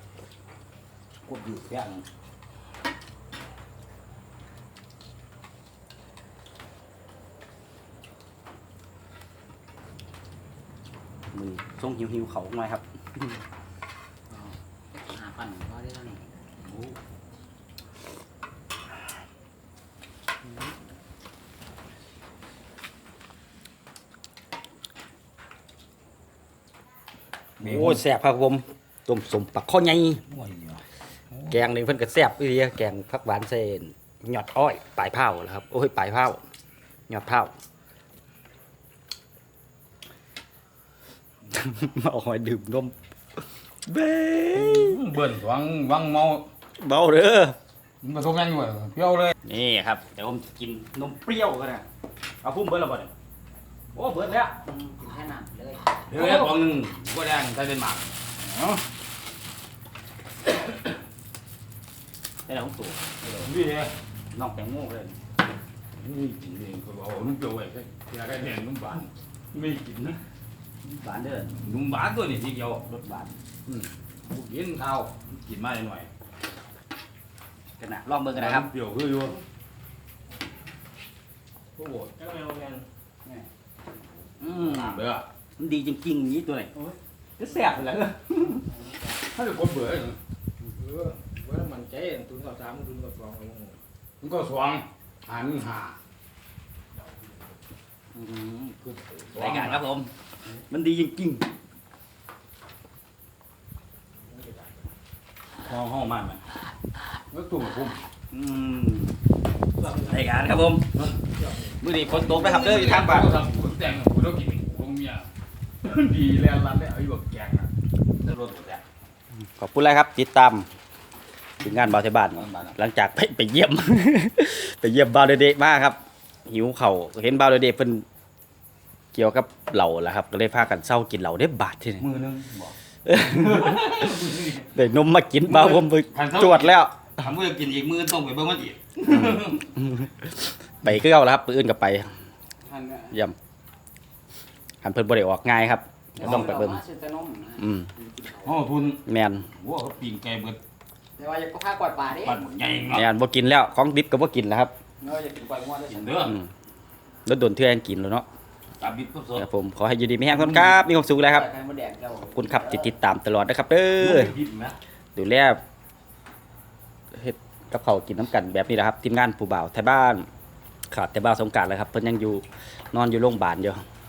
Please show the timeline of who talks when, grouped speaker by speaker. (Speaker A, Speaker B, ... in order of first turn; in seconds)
Speaker A: 1.3-2.0, 16.6-16.9, 27.6-28.0, 30.3-31.6, 44.5-46.5, 48.0-49.3, 56.1-58.2, 63.4-64.0, 65.9-70.2, 71.6-72.9, 73.7-76.1, 78.3-79.4, 81.8-82.1, 84.4-85.2, 89.2-90.2, 94.2-96.0, 98.8-99.8, 107.3-108.0, 112.0-115.3, 115.8-118.8, 122.3-122.8, 132.0-134.8, 135.4-139.8, 146.2-146.6, 148.4-150.6, 152.2-153.1, 155.9-156.4, 158.8-159.5, 160.3-160.8, 164.0-164.8
Speaker B: 11.3-13.3, 27.6-30.2, 31.5-36.4, 37.1-37.5, 41.5-42.9, 43.9-45.0, 46.8-47.6, 49.4-51.9, 52.4-53.1, 53.9-54.6, 62.5-63.5, 64.3-65.2, 70.8-71.6, 72.9-73.3, 77.8-78.7, 84.4-85.0, 85.6-86.7, 87.4-88.7, 98.1-101.5, 105.6-106.4, 108.3-109.2, 109.8-111.0, 111.8-113.3, 119.5-120.7, 121.6-128.1, 129.1-132.1, 133.1-134.0, 134.6-137.1, 139.1-142.1, 143.1-143.3, 144.8-146.8, 147.6-147.9, 149.1-149.5, 152.9-154.7, 157.2-158.2, 159.3-161.5, 162.3-164.4, 165.2-165.6, 167.1-170.3, 170.9-173.8
Speaker C: 14.3-16.2, 54.6-56.0, 88.8-89.1, 142.6-143.2, 146.2-148.6, 151.2-152.4, 155.0-156.3, 161.2-162.9
Speaker D: 82.1-82.9, 90.8-93.8, 104.4-104.7, 111.4-111.7